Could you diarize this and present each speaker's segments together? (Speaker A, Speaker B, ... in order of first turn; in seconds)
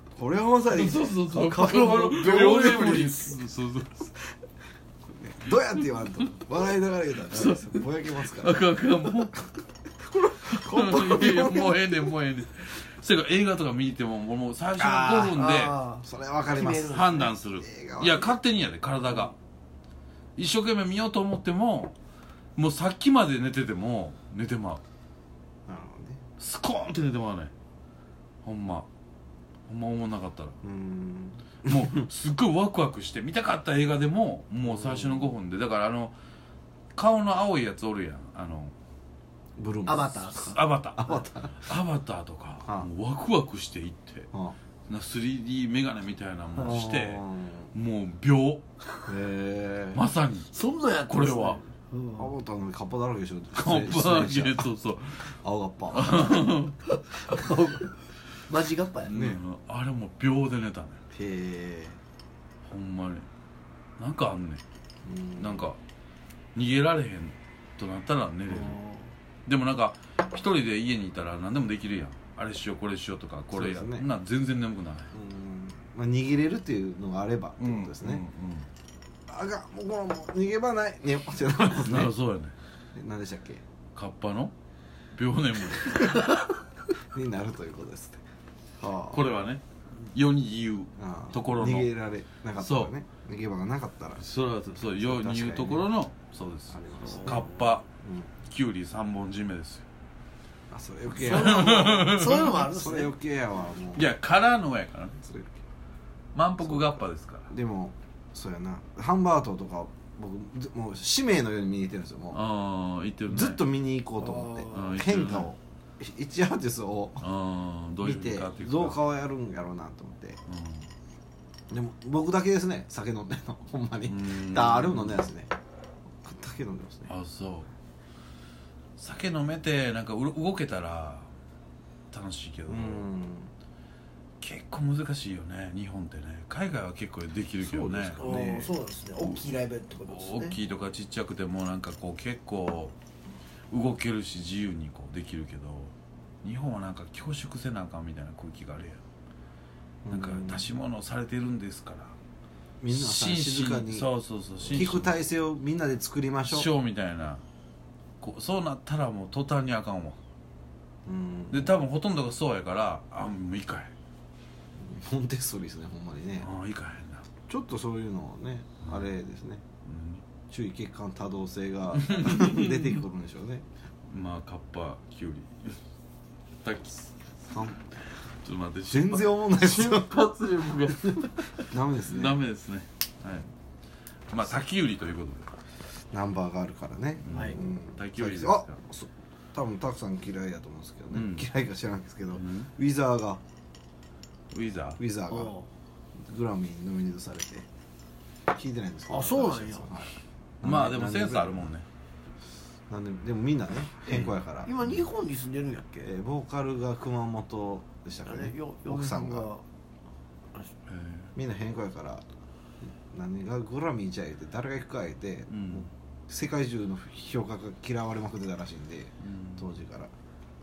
Speaker A: 0.1-3.4, 5.1-8.7, 10.1-12.1, 14.8-15.5, 16.0-18.4, 25.7-26.2, 30.6-32.0, 34.6-35.3, 39.6-40.3, 41.0-41.7, 44.3-44.6, 46.6-47.7, 49.1-50.0, 52.2-54.7, 55.3-56.5, 59.1-59.4, 61.1-62.0, 65.0-65.7, 73.5-74.1, 75.1-78.2, 79.3-82.1, 82.9-83.6, 87.0-88.2, 88.8-89.3, 91.0-94.2, 94.8-95.9, 96.7-98.3, 100.7-104.1, 105.2-105.6, 106.6-112.4, 113.3-117.2, 118.0-120.4, 121.7-125.5, 126.2-127.1, 132.7-133.5, 137.6-138.7, 150.1-150.7, 152.8-154.1, 154.6-156.7, 161.1-161.8, 164.8-166.5, 167.5-169.6, 170.5-173.7, 177.5-177.8, 178.9-180.2, 181.6-182.4, 186.1-193.4, 195.0-195.6, 196.2-197.7, 198.5-201.7, 202.9-204.7, 206.0-209.5, 211.3-212.2, 213.1-220.1
Speaker B: 0.7-4.1, 5.4-5.9, 7.3-9.4, 10.4-15.8, 16.7-19.4, 20.4-21.9, 22.6-24.8, 26.4-27.5, 28.4-28.9, 29.7-30.6, 31.6-36.2, 37.0-38.7, 40.1-44.3, 44.9-48.6, 50.0-50.5, 51.1-51.6, 53.5-55.3, 55.9-56.8, 59.0-61.0, 62.6-63.3, 64.0-64.6, 65.4-65.8, 66.5-68.8, 69.5-75.1, 77.6-78.7, 81.8-82.5, 84.0-84.5, 85.1-86.3, 89.1-89.6, 90.1-91.9, 92.6-93.0, 94.2-97.9, 98.5-99.8, 101.2-102.6, 103.9-105.2, 106.3-107.5, 112.3-113.6, 114.7-115.5, 117.2-119.0, 120.5-120.9, 124.1-125.3, 127.1-127.7, 129.0-131.3, 132.1-133.1, 134.4-138.3, 140.1-143.0, 143.7-149.0, 150.1-152.2, 152.9-155.2, 156.5-157.4, 158.2-160.2, 161.5-163.9, 166.4-167.3, 168.8-169.1, 169.9-170.2, 171.9-173.0, 174.1-175.8, 176.6-177.1, 178.4-183.5, 184.3-185.5, 187.2-188.8, 191.1-191.5, 192.3-192.7, 194.5-195.0, 200.6-201.9, 204.1-205.1, 210.9-211.3, 215.5-215.9, 219.2-219.7
Speaker C: 15.2-17.2, 39.9-40.6, 50.5-52.3, 57.2-57.9, 58.5-59.1, 68.5-69.2, 97.0-97.5, 101.2-103.1, 114.2-115.0, 138.2-140.6, 187.3-187.6, 195.3-195.7, 199.1-199.9, 204.7-206.1, 208.3-209.7